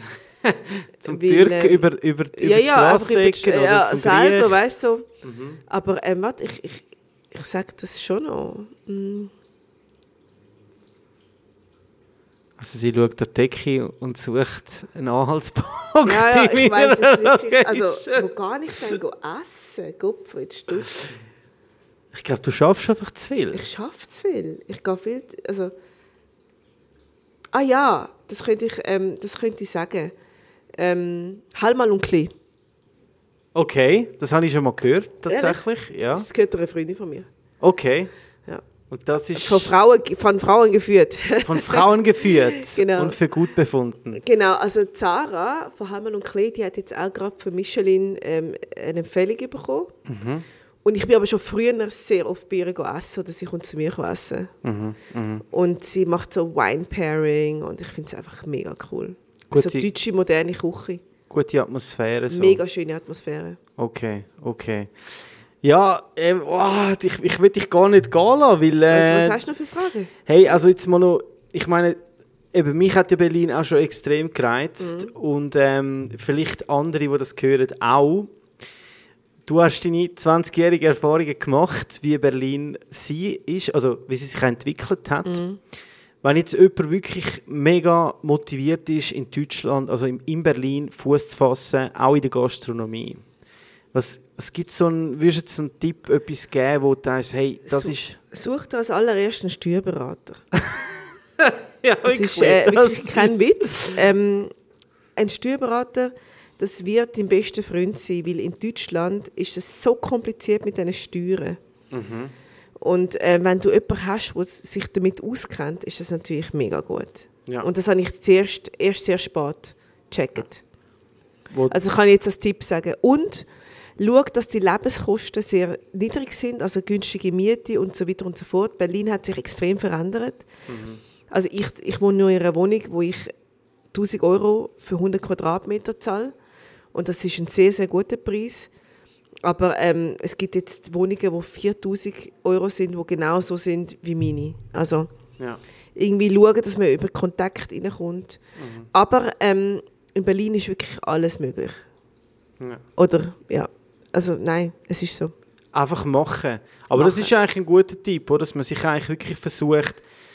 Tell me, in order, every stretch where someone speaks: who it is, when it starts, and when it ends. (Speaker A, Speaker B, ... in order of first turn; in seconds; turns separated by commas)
Speaker A: 0.4-4.6, Speaker B: 1.0-5.1, Speaker A: 5.2-5.6, Speaker B: 5.7-9.3, Speaker A: 12.6-18.3, Speaker B: 16.0-20.9, Speaker A: 22.1-23.6, Speaker B: 23.5-25.7, Speaker B: 27.5-30.1, Speaker B: 30.8-32.3, Speaker A: 33.5-36.3, Speaker B: 35.3-35.6, Speaker B: 36.1-37.3, Speaker A: 37.6-38.1, Speaker A: 38.9-39.7, Speaker B: 39.3-43.2, Speaker A: 41.4-44.2, Speaker B: 44.1-49.9, Speaker A: 50.1-50.5, Speaker B: 50.8-54.5, Speaker A: 54.6-55.4, Speaker B: 55.5-61.0, Speaker A: 59.5-59.9, Speaker A: 61.3-62.6, Speaker B: 62.3-63.6, Speaker A: 63.8-65.1, Speaker A: 65.6-69.4, Speaker B: 68.9-70.1, Speaker A: 70.3-72.0, Speaker A: 72.5-78.3, Speaker B: 74.8-75.1, Speaker A: 79.5-85.4, Speaker B: 85.3-85.6, Speaker A: 86.2-93.2, Speaker A: 93.9-98.2, Speaker B: 97.7-100.4, Speaker A: 101.4-104.0, Speaker B: 102.0-104.5, Speaker B: 105.2-111.6, Speaker A: 111.9-112.3, Speaker B: 112.8-120.6, Speaker A: 121.5-121.8, Speaker B: 121.7-123.5, Speaker B: 124.0-130.5, Speaker A: 130.7-131.0, Speaker B: 131.3-133.3, Speaker B: 133.9-136.3, Speaker B: 136.9-138.7, Speaker B: 139.4-145.1, Speaker B: 145.9-148.4, Speaker A: 148.6-148.9, Speaker B: 148.9-151.8, Speaker B: 153.0-155.3, Speaker A: 155.7-160.0, Speaker B: 156.9-157.3